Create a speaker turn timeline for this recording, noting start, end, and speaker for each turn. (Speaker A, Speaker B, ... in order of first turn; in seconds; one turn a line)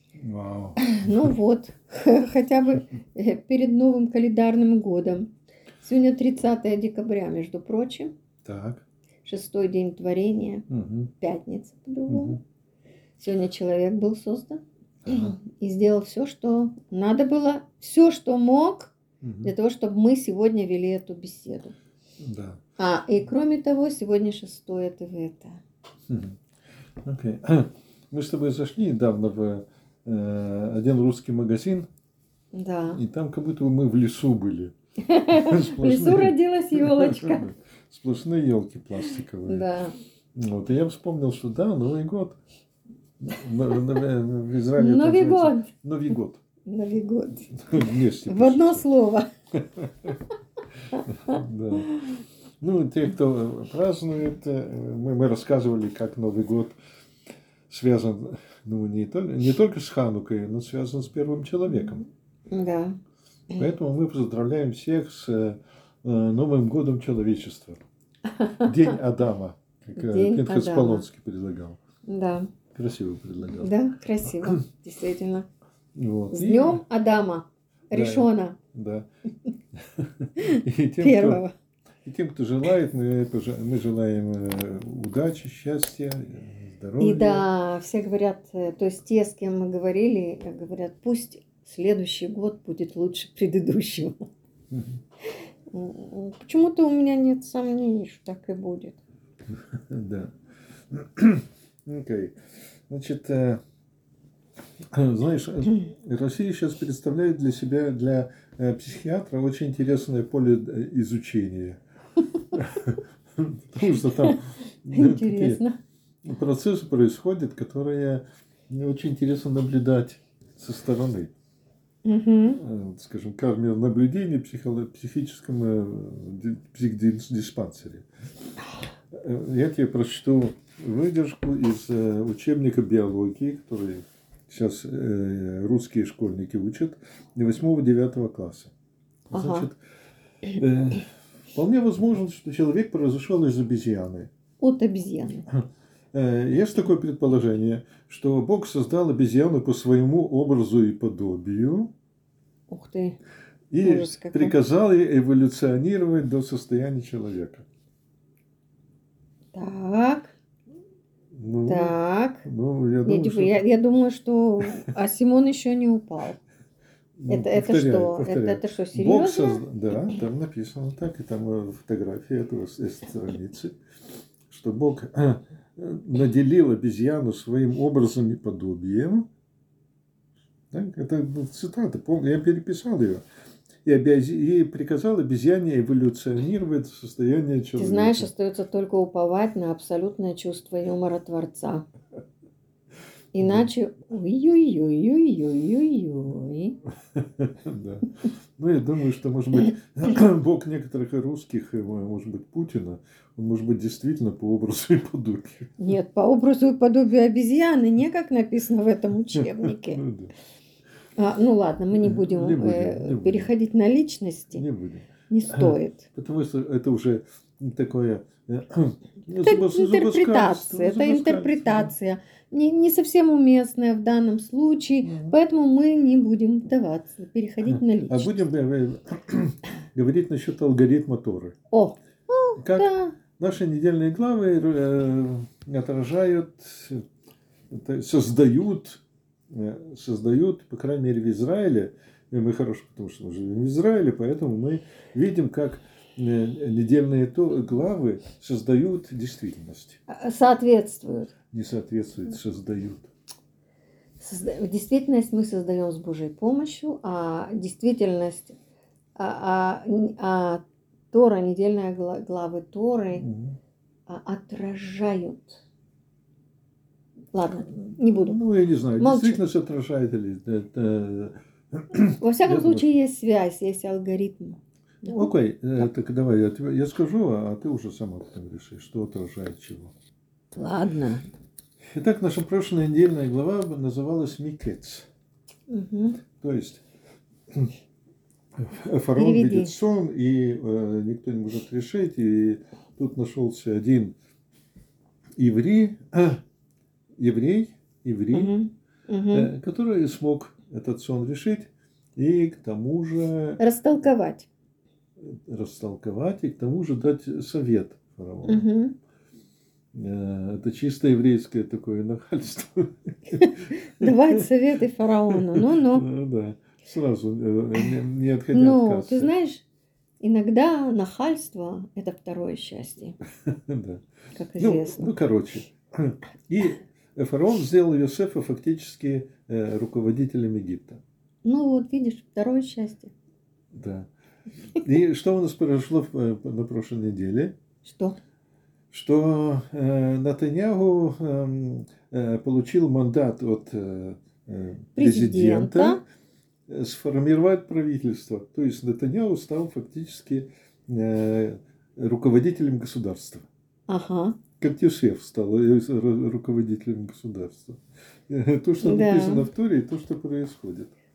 Speaker A: 0.2-1.3
Speaker B: 0.8-5.3
Speaker B: 5.8-8.1
Speaker A: 8.4-8.8
Speaker B: 9.2-10.7
Speaker A: 10.7-11.1
Speaker B: 11.2-12.4
Speaker A: 12.1-12.4
Speaker B: 13.2-21.7
Speaker A: 15.1-15.4
Speaker A: 19.2-19.5
Speaker A: 22.2-22.6
Speaker B: 22.8-25.6
Speaker A: 26.1-26.4
Speaker A: 27.0-31.9
Speaker B: 32.5-33.0
Speaker A: 32.9-34.7
Speaker B: 35.1-37.5
Speaker A: 35.3-39.7
Speaker B: 39.5-39.9
Speaker A: 40.4-42.4
Speaker A: 43.2-46.4
Speaker B: 44.8-45.7
Speaker B: 46.7-49.3
Speaker A: 47.6-48.9
Speaker A: 49.6-50.2
Speaker A: 51.1-51.9
Speaker A: 52.6-56.8
Speaker A: 57.7-62.0
Speaker B: 62.5-63.0
Speaker A: 63.5-67.8
Speaker B: 68.3-68.7
Speaker A: 68.6-71.8
Speaker B: 70.0-71.0
Speaker B: 72.1-72.5
Speaker A: 72.7-73.7
Speaker B: 73.6-75.5
Speaker A: 76.0-76.8
Speaker B: 76.3-78.6
Speaker A: 77.9-79.1
Speaker A: 79.8-81.4
Speaker B: 80.4-81.5
Speaker A: 82.0-87.5
Speaker B: 87.0-94.2
Speaker B: 95.7-99.0
Speaker A: 99.7-100.3
Speaker A: 100.9-102.3
Speaker A: 102.9-103.6
Speaker A: 104.9-111.8
Speaker A: 112.5-115.6
Speaker B: 113.9-114.4
Speaker B: 114.9-115.7
Speaker A: 116.2-121.3
Speaker B: 122.0-122.6
Speaker A: 122.6-128.1
Speaker A: 129.1-138.7
Speaker A: 139.3-139.8
Speaker B: 139.3-139.7
Speaker A: 140.5-144.3
Speaker B: 144.6-145.5
Speaker A: 145.5-151.9
Speaker B: 152.7-153.2
Speaker A: 153.7-157.7
Speaker B: 153.8-154.6
Speaker B: 159.5-160.3
Speaker A: 161.3-163.7
Speaker B: 161.7-162.5
Speaker B: 163.1-166.4
Speaker A: 167.2-173.8
Speaker B: 167.3-169.6
Speaker A: 174.5-179.3
Speaker A: 180.7-183.2
Speaker A: 183.8-188.3
Speaker B: 187.8-191.9
Speaker B: 193.3-196.8
Speaker A: 193.4-193.7
Speaker A: 197.2-205.8
Speaker B: 205.8-210.0
Speaker A: 209.3-210.3
Speaker B: 211.2-214.6
Speaker A: 211.9-213.5
Speaker A: 214.5-221.9
Speaker B: 215.3-216.1
Speaker B: 219.4-228.5
Speaker A: 225.0-225.4
Speaker A: 227.6-231.6
Speaker B: 231.7-233.2
Speaker A: 232.6-237.1
Speaker A: 237.7-250.0
Speaker B: 250.1-251.3
Speaker A: 251.5-253.1
Speaker B: 254.2-258.6
Speaker B: 259.2-263.2
Speaker A: 263.2-263.6
Speaker B: 264.1-265.6
Speaker B: 267.3-268.4
Speaker A: 267.7-272.9
Speaker B: 269.0-269.4
Speaker B: 272.2-275.3
Speaker A: 275.0-279.9
Speaker B: 280.5-281.3
Speaker A: 281.9-285.1
Speaker B: 285.7-286.2
Speaker A: 286.4-286.8
Speaker A: 288.6-294.1
Speaker B: 289.2-289.8
Speaker A: 295.4-296.4
Speaker A: 297.2-298.6
Speaker B: 298.3-299.5
Speaker A: 299.3-303.6
Speaker B: 303.6-304.5
Speaker A: 305.2-308.7
Speaker B: 308.5-308.9
Speaker A: 309.9-314.4
Speaker B: 313.4-316.1
Speaker A: 315.3-319.3
Speaker B: 318.5-319.6
Speaker B: 320.2-323.2
Speaker A: 323.4-324.0
Speaker B: 324.4-325.1
Speaker A: 324.6-331.0
Speaker B: 331.4-333.1
Speaker A: 333.7-334.1
Speaker A: 334.8-337.6
Speaker B: 337.8-338.2
Speaker A: 338.9-346.0
Speaker B: 345.0-346.0
Speaker A: 346.7-353.5
Speaker B: 353.9-354.4
Speaker A: 354.6-360.9
Speaker B: 358.8-359.5